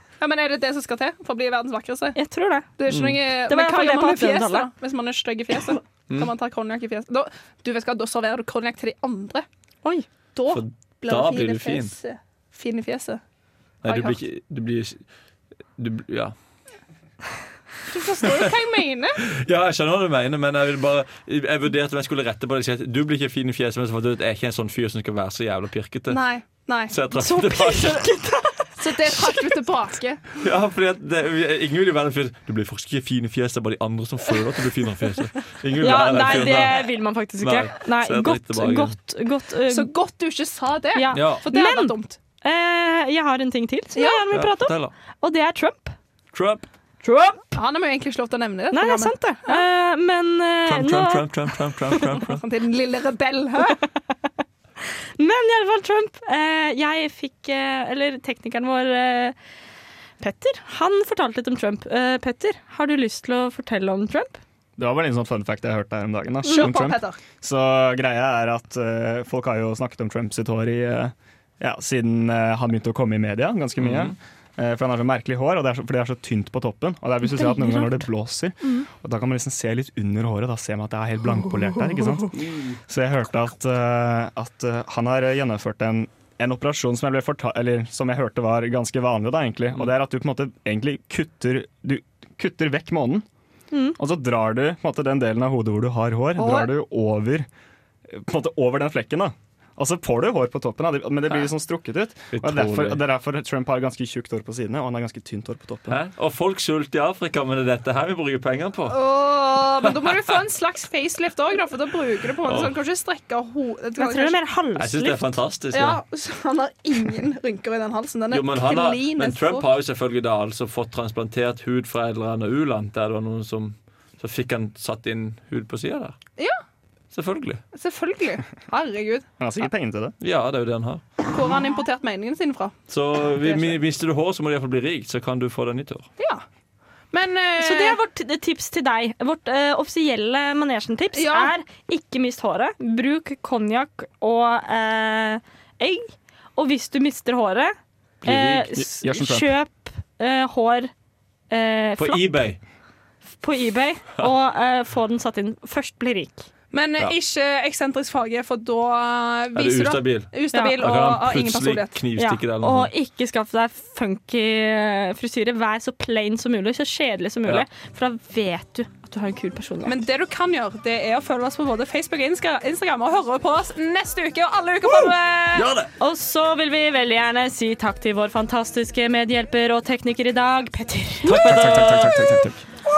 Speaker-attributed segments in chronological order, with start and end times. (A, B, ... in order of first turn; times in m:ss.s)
0:00.2-0:02.2 A
0:02.1-0:02.7 B
0:02.8-0:09.4 A
0:02.9-0:03.2 C
0:03.4-0:04.7 B
0:10.3-0:13.2 A
0:10.5-0:11.9 C
0:13.8-0:15.0 C
0:13.8-0:14.2 A
0:15.8-0:16.3 C
0:17.9-0:19.2 A
0:19.2-0:26.2 C
0:26.1-0:28.0 A
0:26.9-0:28.1 C
0:27.1-0:29.4 B
0:28.8-0:30.2 A
0:30.4-0:36.9 C
0:35.8-0:39.9 B
0:36.2-0:36.5 A
0:37.4-0:38.9 C
0:39.7-0:42.2 A
0:40.9-0:45.9 B
0:41.1-0:41.4 C
0:44.0-0:44.3 A
0:44.3-0:44.9 C
0:46.3-0:46.7 C
0:47.0-0:47.6 B
0:47.5-0:49.6 A
0:48.7-0:52.0 B
0:50.6-0:52.4 C
0:52.1-0:53.8 A
0:55.2-0:59.4 B
1:00.2-1:04.4 B
1:04.8-1:33.2 D
1:06.4-1:07.2 A
1:13.8-1:14.2 C
1:33.7-1:34.0 B
1:34.0-1:37.5 D
1:36.4-1:36.7 B
1:38.1-1:46.0 D
1:42.3-1:43.0 C
1:45.9-1:49.0 C
1:48.9-1:54.4 A
1:52.4-1:52.7 C
1:54.0-1:55.4 B
1:54.8-1:56.0 C
1:55.7-1:59.7 A
1:58.3-2:06.2 C
2:07.1-2:07.6 C
2:07.7-2:09.3 A
2:09.4-2:10.1 D
2:10.2-2:11.0 C
2:11.3-2:12.8 A
2:12.9-2:16.1 C
2:13.4-2:13.8 A
2:16.2-2:16.4 A
2:17.1-2:18.0 A
2:17.6-2:30.9 B
2:21.1-2:21.5 A
2:28.2-2:29.5 D
2:31.5-2:32.2 B
2:32.0-2:32.6 C
2:33.4-2:36.5 B
2:36.7-2:42.0 A
2:39.5-2:42.9 C
2:40.5-2:40.8 B
2:42.2-2:49.9 B
2:49.8-2:55.7 A
2:54.8-2:55.9 C
2:56.0-3:01.4 B
3:01.2-3:02.5 C
3:01.3-3:02.6 D